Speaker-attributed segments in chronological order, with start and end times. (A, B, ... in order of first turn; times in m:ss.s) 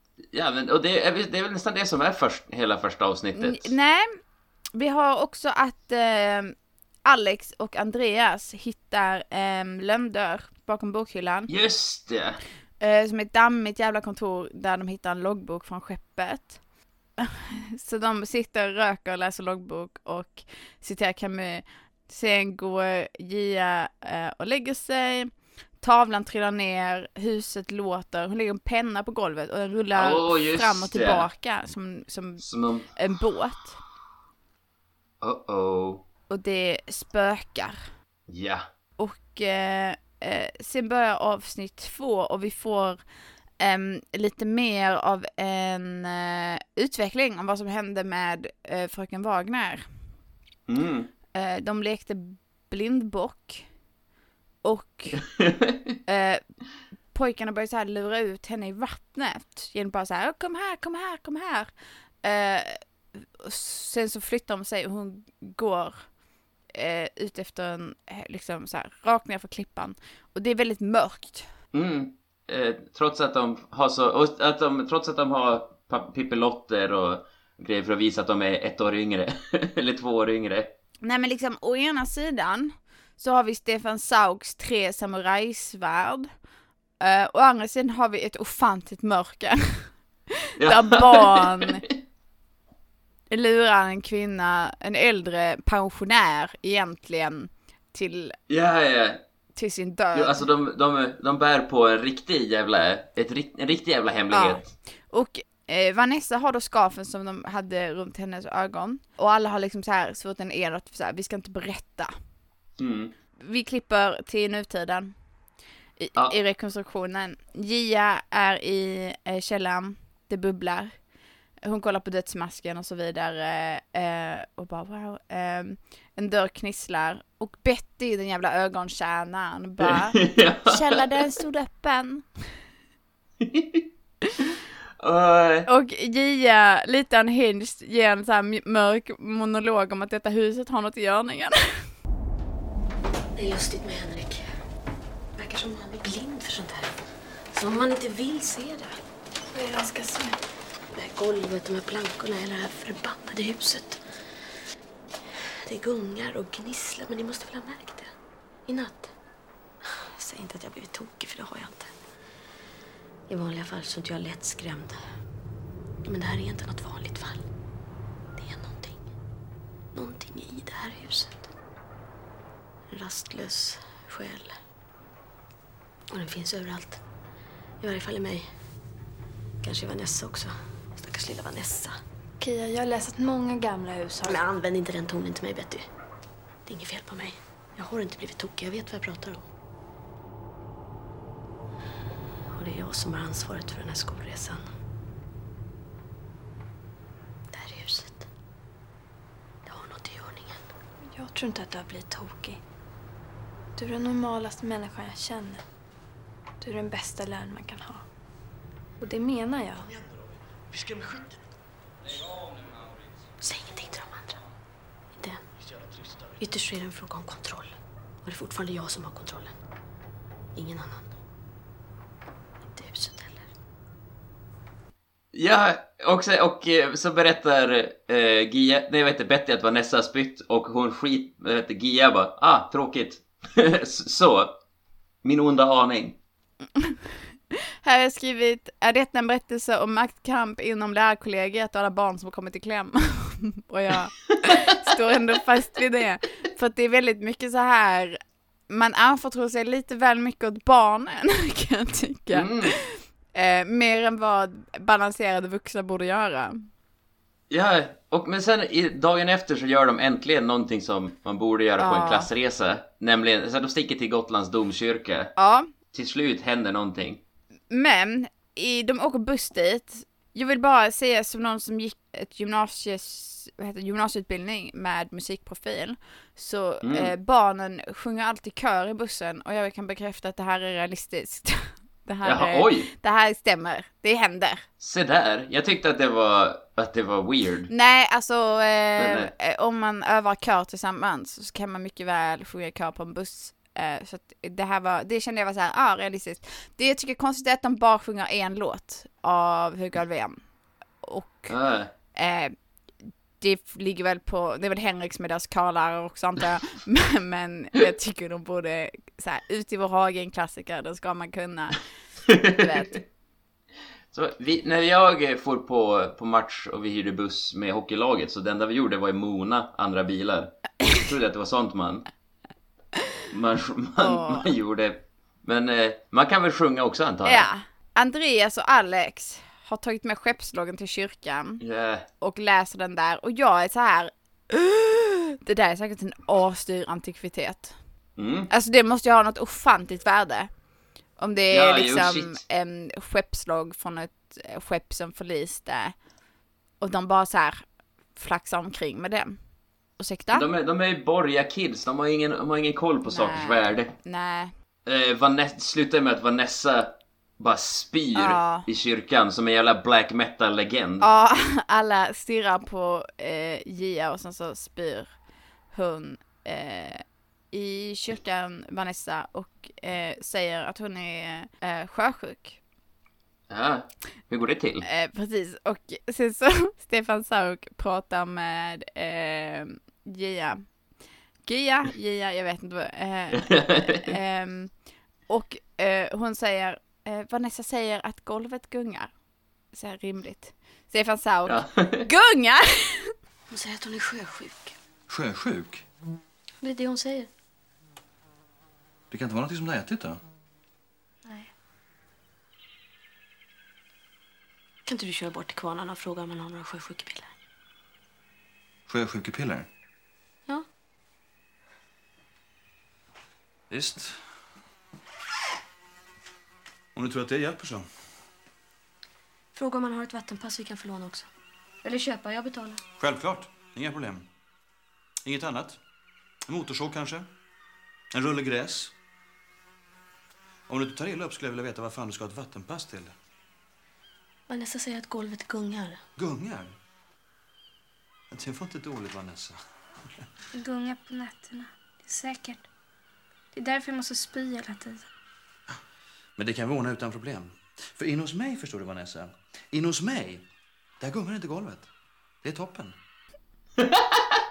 0:00.3-0:03.7 A
0:03.4-0:04.2 B
0:04.7-0:11.5 B
0:11.5-0:12.4 A
0:12.8-0:16.6 B
0:17.2-0:32.4 B
0:30.0-0:31.3 A
0:32.4-0:32.9 A
0:33.0-0:33.8 B
0:35.2-0:36.0 A
0:36.3-0:37.9 B
0:38.3-0:38.6 A
0:39.0-0:43.0 B
0:43.6-0:49.9 B
0:50.7-0:51.1 A
0:51.3-0:53.6 B
0:54.6-0:55.3 B
0:55.4-0:55.8 A
0:56.1-0:56.4 B
0:57.1-1:06.1 B
1:06.7-1:11.5 B
1:11.7-1:20.7 A
1:21.0-1:26.3 B
1:27.0-1:29.9 B
1:30.6-1:31.7 A
1:30.6-1:31.8 B
1:33.3-1:38.4 B
1:38.5-1:39.2 A
1:39.5-1:40.4 B
1:40.1-1:44.7 A
1:44.3-1:52.1 B
1:52.8-1:53.1 A
1:53.4-1:55.1 B
1:56.0-2:01.0 B
2:01.6-2:12.4 B
2:09.8-2:10.8 A
2:13.4-2:13.8 A
2:15.0-2:15.7 A
2:15.7-2:21.8 B
2:23.3-2:24.4 C
2:25.4-2:27.0 C
2:27.5-2:29.0 C
2:29.5-2:30.4 D
2:30.9-2:34.2 C
2:35.6-2:38.1 C
2:38.7-2:39.1 C
2:40.2-2:41.9 C
2:43.3-2:45.0 C
2:46.0-2:47.4 C
2:48.4-2:49.1 C
2:49.9-2:51.5 C
2:52.9-2:54.6 C
2:56.1-2:57.0 C
2:57.8-2:58.5 C
2:59.6-3:02.0 C
3:02.4-3:04.4 D
3:04.2-3:05.9 C
3:06.6-3:09.4 C
3:12.5-3:14.7 C
3:17.5-3:18.3 C
3:19.6-3:20.7 C
3:21.0-3:22.6 D
3:23.8-3:25.6 D
3:26.6-3:28.0 D
3:29.0-3:29.9 D
3:33.4-3:34.4 C
3:35.1-3:35.4 C
3:36.4-3:39.5 C
3:40.5-3:41.1 C
3:42.7-3:43.5 C
3:45.3-3:54.5 A
3:55.2-3:56.2 A
3:57.8-4:08.2 B
4:08.7-4:16.7 B
4:12.3-4:12.7 A
4:17.5-4:25.3 A
4:21.8-4:22.3 B
4:25.4-4:25.7 B
4:25.9-4:27.2 A
4:27.7-4:44.6 B
4:36.8-4:37.1 A
4:42.2-4:42.9 A
4:44.8-4:47.7 A
4:47.7-5:00.4 B
4:49.0-4:49.3 A
5:01.0-5:01.5 B
5:01.5-5:01.9 A
5:02.1-5:02.5 B
5:03.4-5:13.0 B
5:12.3-5:12.6 A
5:14.1-5:22.1 A
5:23.3-5:27.5 A
5:24.0-5:24.5 B
5:27.2-5:31.6 B
5:31.6-5:32.1 A
5:32.2-5:37.8 B
5:38.2-5:38.5 A
5:38.5-5:40.5 B
5:41.2-5:45.9 B
5:41.5-5:42.4 A
5:46.8-5:47.6 B
5:48.1-5:49.4 B
5:50.0-5:50.4 B
5:50.3-5:53.9 A
5:53.0-5:54.5 B
5:54.8-6:01.0 A
5:58.1-5:58.6 B
6:01.0-6:05.2 B
6:05.7-6:12.6 B
6:13.5-6:14.8 A
6:14.8-6:20.6 B
6:21.4-6:29.1 B
6:23.4-6:24.0 A
6:29.7-6:33.1 B
6:31.4-6:32.1 A
6:33.5-6:34.8 C
6:35.1-6:35.8 E
6:36.6-6:37.3 C
6:39.1-6:40.2 E
6:44.8-6:47.3 C
6:48.9-6:49.7 E
6:53.7-6:54.3 E
6:56.9-6:57.9 E
6:59.5-7:01.3 C
7:03.0-7:04.3 E
7:05.2-7:05.8 E
7:06.5-7:07.3 E
7:08.1-7:08.9 E
7:10.7-7:13.1 E
7:14.5-7:16.0 C
7:16.2-7:16.7 E
7:18.3-7:19.6 E
7:20.5-7:22.6 D
7:23.5-7:25.1 D
7:26.4-7:30.5 E
7:31.0-7:31.9 E
7:32.4-7:33.0 E
7:33.8-7:34.2 A